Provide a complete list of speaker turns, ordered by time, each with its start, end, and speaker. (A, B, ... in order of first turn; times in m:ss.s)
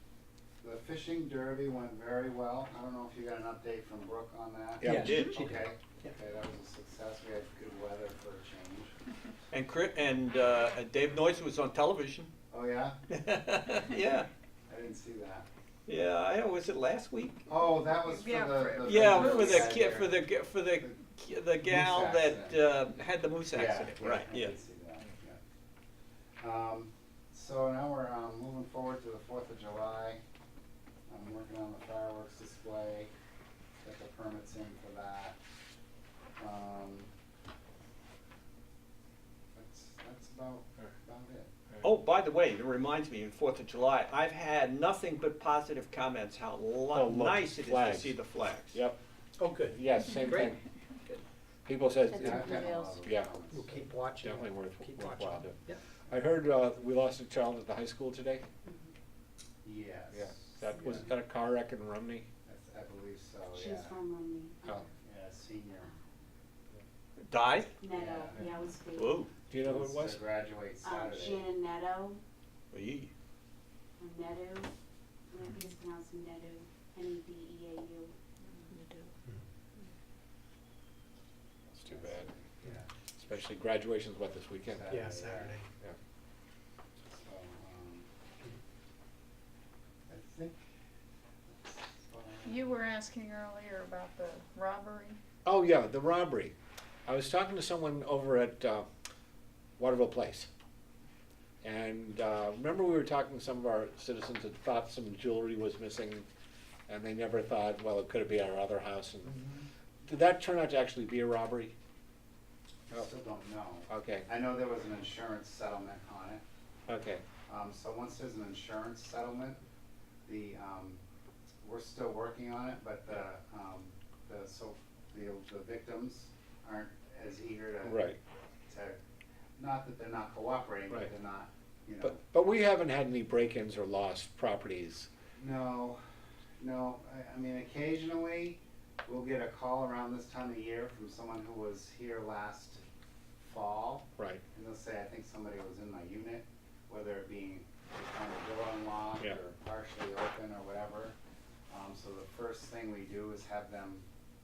0:00.6-0:08.9 A
0:04.8-0:05.3 B
0:04.8-0:06.1 C
0:04.8-0:05.4 D
0:09.5-0:12.3 D
0:12.5-0:13.0 A
0:13.1-0:14.3 D
0:14.7-0:15.5 A
0:15.9-0:17.5 D
0:17.5-0:20.3 A
0:18.0-0:19.7 E
0:18.8-0:24.6 D
0:21.6-0:22.6 A
0:23.5-0:25.4 A
0:26.4-0:30.2 A
0:31.1-0:33.1 A
0:33.8-0:35.4 A
0:36.4-0:37.1 A
0:39.5-0:41.5 A
0:41.8-0:48.8 D
0:46.9-0:48.2 B
0:48.7-0:49.0 B
0:49.4-0:49.8 C
0:49.6-0:50.6 B
0:51.7-0:53.4 B
0:52.1-0:53.0 F
0:52.1-0:54.0 A
0:53.4-0:55.8 C
0:54.2-0:55.6 B
0:56.1-0:58.5 B
0:59.6-1:01.1 A
1:00.1-1:02.3 B
1:02.4-1:04.0 A
1:03.5-1:04.9 F
1:05.0-1:05.9 A
1:07.2-1:07.7 D
1:07.8-1:09.2 F
1:07.9-1:08.5 A
1:09.0-1:09.3 D
1:09.5-1:10.2 B
1:09.6-1:11.6 A
1:10.8-1:12.2 F
1:12.7-1:13.1 D
1:14.0-1:14.7 F
1:15.3-1:18.1 F
1:21.7-1:22.9 A
1:21.8-1:22.3 B
1:23.2-1:25.1 B
1:24.7-1:25.6 A
1:24.9-1:25.7 C
1:27.1-1:28.1 A
1:30.1-1:30.7 A
1:31.6-1:32.7 A
1:32.4-1:35.2 E
1:35.4-1:36.5 B
1:37.1-1:38.9 B
1:39.8-1:40.5 B
1:41.6-1:46.3 B
1:46.9-1:49.4 B
1:49.2-1:49.7 A
1:50.0-1:51.7 B
1:52.9-1:56.4 A
1:53.9-1:54.3 B
1:56.9-1:57.2 B
1:57.5-1:59.6 A
2:00.3-2:01.0 A
2:01.6-2:08.1 A
2:07.8-2:08.2 B
2:08.7-2:09.0 A
2:09.6-2:12.2 A
2:12.0-2:15.1 B
2:15.4-2:16.0 A
2:16.6-2:22.8 A
2:23.4-2:31.2 A
2:31.7-2:34.1 A